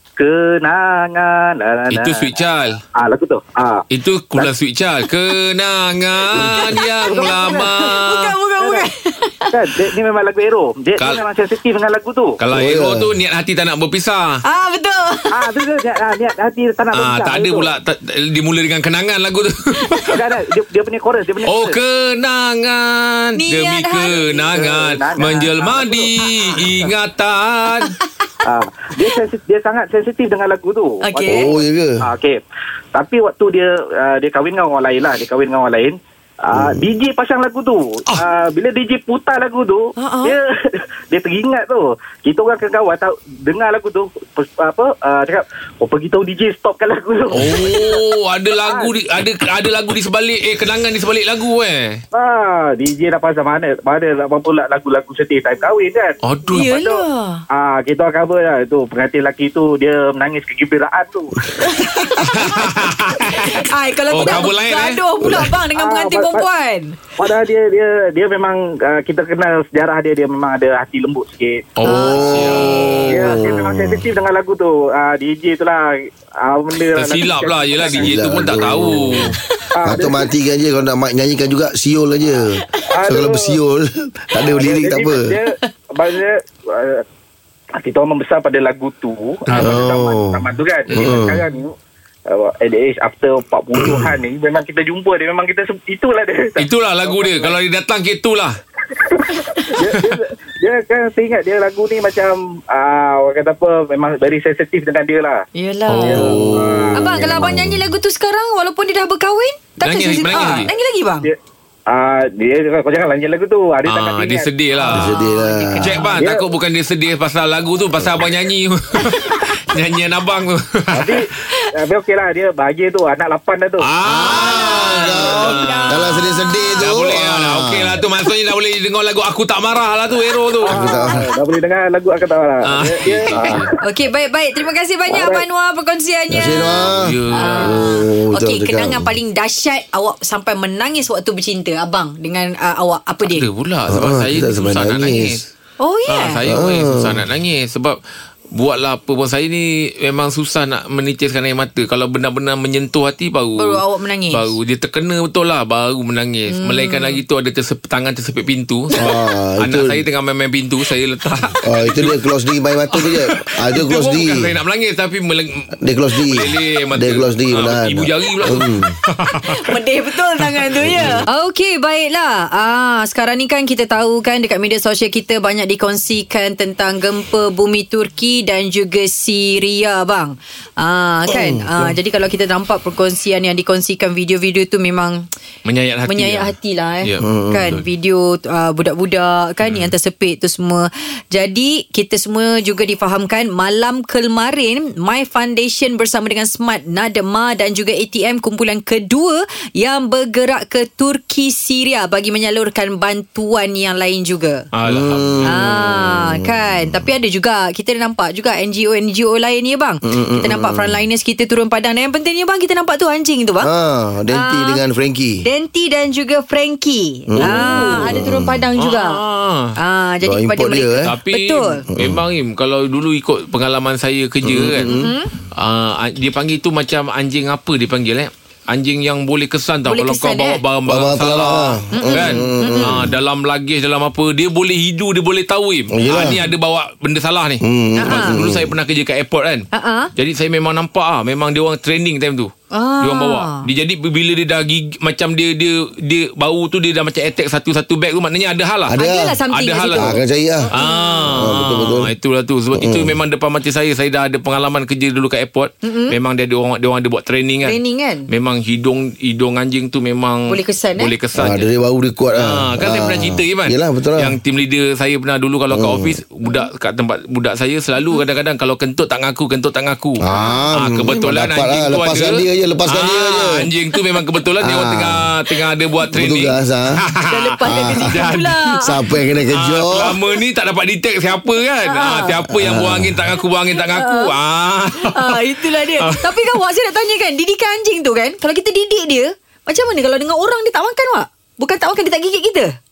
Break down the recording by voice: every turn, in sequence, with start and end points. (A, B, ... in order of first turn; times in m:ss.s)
0:00.2-0:02.4 A
0:01.9-0:02.8 B
0:02.9-0:03.8 A
0:03.9-0:08.3 B
0:06.4-0:09.5 C
0:07.0-0:08.0 A
0:08.6-0:08.8 A
0:09.5-0:12.4 A
0:12.4-0:14.4 B
0:12.5-0:13.1 D
0:14.4-0:15.5 C
0:15.3-0:17.7 A
0:16.9-0:20.2 B
0:19.8-0:20.1 C
0:20.1-0:21.8 A
0:21.4-0:27.9 B
0:23.4-0:24.2 C
0:24.1-0:26.9 A
0:28.4-0:32.4 A
0:31.0-0:31.5 C
0:31.2-0:32.0 D
0:32.9-0:48.0 A
0:36.5-0:36.8 D
0:40.0-0:40.4 C
0:47.3-0:52.0 B
0:48.6-0:48.9 A
0:52.1-1:01.7 A
0:56.2-0:56.8 B
0:56.5-0:57.4 C
1:01.5-1:07.0 C
1:02.2-1:05.4 B
1:05.7-1:06.4 A
1:07.2-1:11.7 A
1:11.8-1:13.3 B
1:11.8-1:14.1 D
1:11.8-1:13.6 C
1:13.1-1:18.1 A
1:16.9-1:19.4 B
1:17.9-1:25.3 D
1:19.4-1:19.6 C
1:19.7-1:20.2 A
1:22.6-1:22.9 C
1:22.9-1:23.6 A
1:24.4-1:27.0 A
1:27.8-1:31.7 A
1:29.5-1:29.8 B
1:29.6-1:31.4 D
1:30.9-1:31.2 B
1:32.3-1:37.6 A
1:33.8-1:34.1 D
1:36.6-1:38.6 B
1:38.9-1:45.4 A
1:39.4-1:39.7 C
1:45.6-1:51.3 C
1:45.9-1:47.0 B
1:46.0-1:47.3 A
1:46.3-1:47.8 D
1:49.8-1:50.7 B
1:51.2-1:54.5 A
1:53.8-1:55.2 B
1:54.7-1:56.2 C
1:54.9-1:56.0 D
1:55.8-2:01.3 B
1:56.2-1:56.5 A
1:59.0-1:59.5 C
2:00.9-2:03.9 A
2:03.8-2:06.2 B
2:04.0-2:08.0 D
2:04.2-2:06.9 C
2:06.8-2:10.7 B
2:10.6-2:13.8 A
2:10.7-2:11.3 D
2:10.7-2:11.2 C
2:12.6-2:13.7 B
2:13.8-2:23.4 C
2:15.1-2:15.4 A
2:16.3-2:19.1 D
2:16.8-2:17.9 B
2:23.3-2:25.4 B
2:23.9-2:25.4 D
2:25.8-2:26.4 C
2:26.1-2:28.0 B
2:26.5-2:27.2 D
2:28.5-2:42.2 B
2:33.6-2:34.6 C
2:36.5-2:37.2 C
2:38.9-2:40.0 D
2:41.6-2:44.5 D
2:42.9-2:49.6 B
2:45.8-2:49.0 D
2:49.2-3:05.2 C
2:50.7-2:51.2 B
2:50.7-2:51.3 D
3:01.3-3:01.9 D
3:05.6-3:06.5 B
3:06.1-3:24.6 C
3:07.0-3:07.3 B
3:07.2-3:07.8 D
3:09.6-3:09.9 B
3:24.7-3:25.6 B
3:24.9-3:26.5 D
3:25.4-3:33.7 C
3:30.0-3:31.0 D
3:33.6-3:35.4 D
3:34.3-3:34.8 C
3:35.4-3:39.2 C
3:37.3-3:38.6 D
3:37.4-3:38.2 B
3:38.8-3:39.8 B
3:39.8-3:41.8 C
3:40.2-3:41.1 D
3:41.0-3:44.9 B
3:41.9-3:42.2 D
3:44.4-3:45.1 D
3:44.8-3:45.3 C
3:45.6-4:09.0 B
3:49.8-3:50.6 C
3:50.9-3:53.1 D
3:51.9-3:53.1 C
3:55.9-3:56.4 D
3:57.6-3:58.7 D
3:58.0-3:58.4 C
3:59.7-4:00.1 C
4:02.7-4:03.6 C
4:08.9-4:09.4 D
4:09.0-4:11.5 C
4:09.5-4:10.2 B
4:09.9-4:10.7 D
4:10.7-4:21.7 B
4:11.3-4:12.1 D
4:12.8-4:13.2 D
4:15.8-4:16.1 C
4:17.6-4:18.3 C
4:20.5-4:21.1 C
4:21.4-4:24.3 D
4:22.3-4:38.8 B
4:25.7-4:26.1 D
4:30.2-4:33.7 D
4:30.3-4:30.6 C
4:34.6-4:35.2 D
4:36.1-4:37.0 D
4:37.2-4:38.9 C
4:37.6-4:38.2 D
4:38.8-4:40.2 D
4:39.5-4:46.6 B
4:41.8-4:42.4 C
4:42.5-4:43.3 D
4:43.8-4:44.3 C
4:45.0-4:52.7 C